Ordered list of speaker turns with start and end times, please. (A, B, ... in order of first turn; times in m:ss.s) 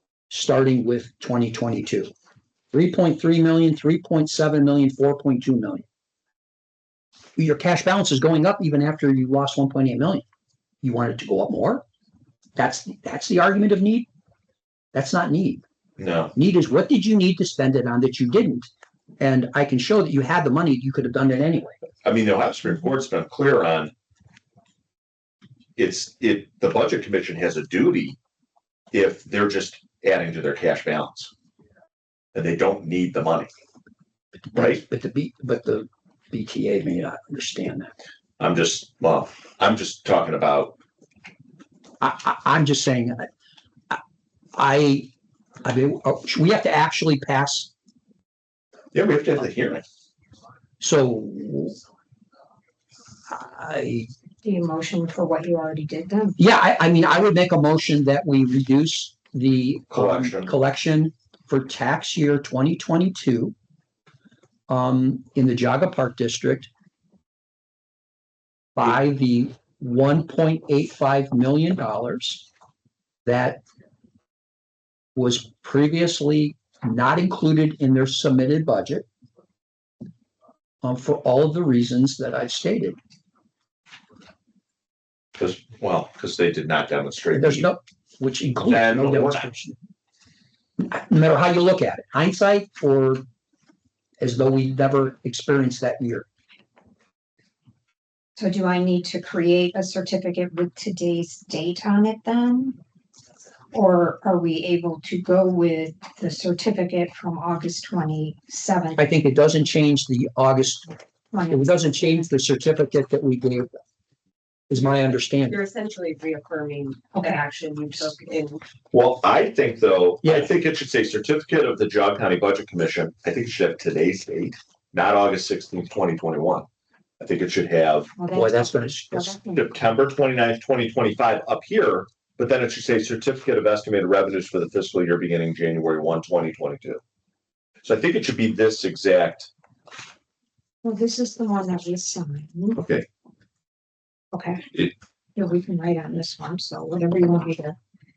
0:00.3-0:02.1 A
0:02.7-0:05.8 A
0:07.4-0:10.2 A
0:10.8-0:11.8 A
0:12.6-0:14.1 A
0:14.9-0:15.6 A
0:16.0-0:16.3 B
0:16.3-0:21.8 A
0:22.0-0:23.9 B
0:25.8-0:28.2 B
0:28.9-0:31.3 B
0:32.3-0:33.5 B
0:34.5-0:37.9 A
0:34.5-0:34.8 B
0:38.4-0:40.8 B
0:42.0-0:43.3 A
0:44.5-0:45.1 A
0:45.6-0:47.7 A
0:48.9-0:49.8 B
0:50.8-0:51.8 A
0:53.3-0:54.1 A
0:54.4-0:56.4 C
0:56.4-1:03.5 A
0:59.9-1:00.6 B
1:04.7-1:06.7 A
1:08.8-1:12.4 A
1:13.2-1:13.6 A
1:15.1-1:19.0 A
1:20.8-1:23.0 A
1:25.4-1:27.7 B
1:27.3-1:29.8 A
1:28.6-1:29.5 B
1:30.8-1:33.2 A
1:34.2-1:36.2 A
1:38.4-1:42.8 C
1:43.7-1:49.0 C
1:49.0-1:50.9 A
1:51.3-1:52.3 C
1:51.5-1:53.7 A
1:54.7-1:55.6 A
1:55.4-1:58.6 D
1:57.1-1:57.4 C
1:58.9-2:06.6 B
2:07.2-2:08.1 B
2:08.2-2:09.7 C
2:08.3-2:09.3 A
2:09.5-2:17.0 B
2:17.8-2:19.5 B
2:20.8-2:22.8 C
2:22.7-2:23.0 B
2:24.3-2:24.6 C
2:25.4-2:27.8 C